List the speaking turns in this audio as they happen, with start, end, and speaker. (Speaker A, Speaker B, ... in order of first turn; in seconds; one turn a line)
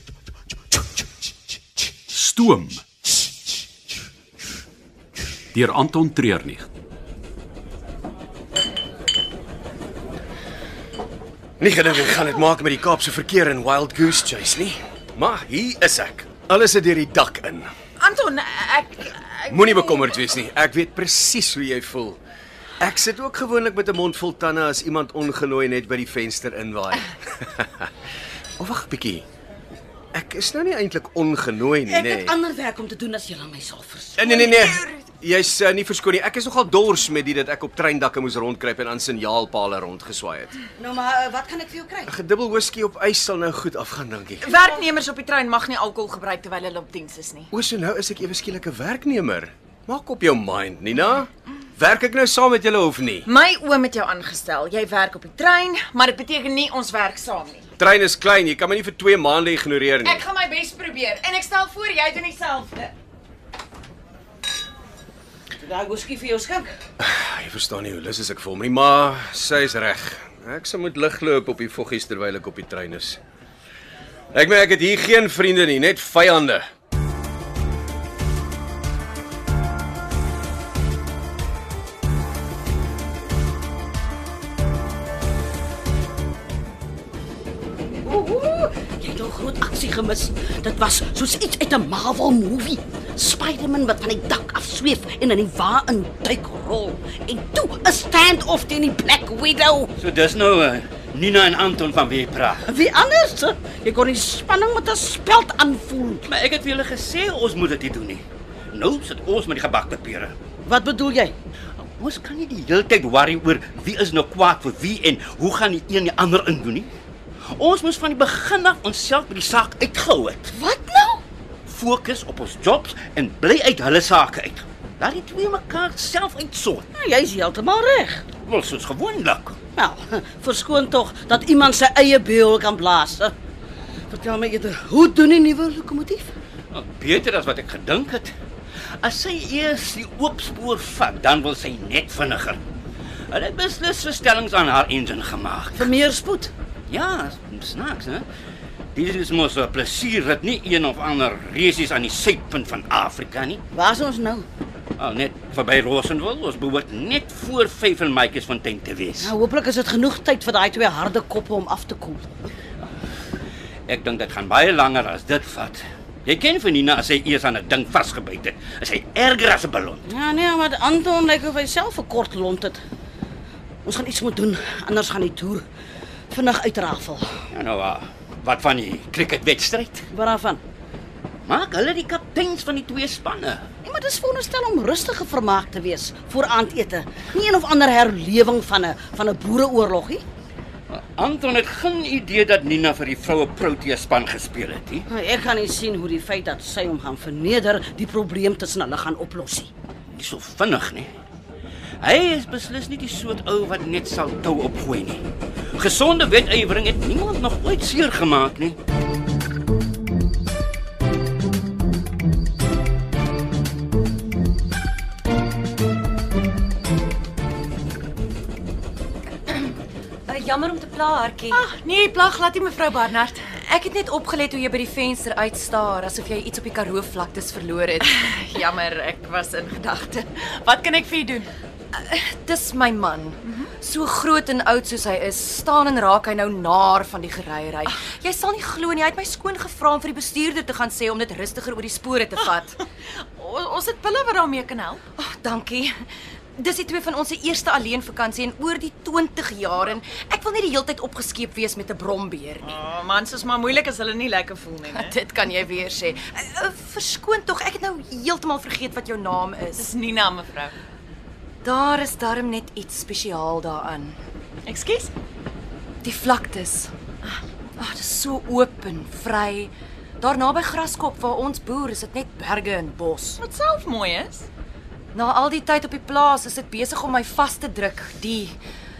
Speaker A: 2.1-2.8
Speaker A: 5.5-6.7
Speaker B: 11.6-17.7
Speaker C: 18.0-20.2
Speaker B: 19.5-22.2
Speaker B: 22.8-27.9
Speaker B: 28.6-29.2
Speaker B: 30.1-32.3
Speaker D: 31.9-34.3
Speaker B: 34.2-40.5
Speaker E: 34.4-34.9
Speaker D: 40.8-42.1
Speaker B: 42.1-44.5
Speaker C: 44.4-47.5
Speaker B: 47.5-53.2
Speaker C: 53.2-57.6
Speaker B: 57.8-60.2
Speaker C: 60.0-62.9
Speaker D: 65.5-66.8
Speaker B: 67.0-73.2
Speaker B: 74.3-76.6
Speaker D: 88.0-99.9
Speaker F: 100.0-102.6
Speaker D: 102.6-106.3
Speaker F: 106.2-110.3
Speaker D: 110.7-111.3
Speaker F: 111.8-116.9
Speaker F: 117.5-120.5
Speaker D: 120.5-121.2
Speaker F: 121.7-126.8
Speaker D: 126.9-128.2
Speaker F: 128.4-129.6
Speaker D: 129.7-133.3
Speaker D: 134.1-136.3
Speaker F: 136.7-138.3
Speaker F: 139.0-142.6
Speaker F: 143.3-145.9
Speaker D: 145.8-146.5
Speaker F: 146.9-148.2
Speaker F: 148.9-153.6
Speaker D: 153.7-154.4
Speaker F: 155.0-159.3
Speaker D: 159.2-162.3
Speaker F: 163.9-170.0
Speaker D: 170.0-172.8
Speaker D: 173.8-175.7
Speaker D: 176.3-177.3
Speaker F: 177.5-180.0
Speaker D: 180.1-180.6
Speaker F: 181.4-183.6
Speaker D: 183.8-190.2
Speaker F: 190.9-195.0
Speaker D: 195.1-199.7
Speaker F: 200.1-201.1
Speaker F: 202.0-208.8
Speaker E: 220.3-221.6
Speaker C: 221.5-223.4
Speaker E: 223.6-228.3
Speaker C: 228.0-231.5
Speaker E: 231.9-242.8
Speaker C: 243.3-245.0
Speaker E: 245.1-252.8
Speaker C: 252.6-255.1
Speaker E: 254.8-259.9
Speaker C: 259.8-260.7
Speaker E: 261.6-264.2
Speaker C: 264.6-265.1
Speaker E: 266.0-266.9
Speaker E: 267.8-273.4
Speaker C: 273.4-274.5
Speaker E: 275.1-278.6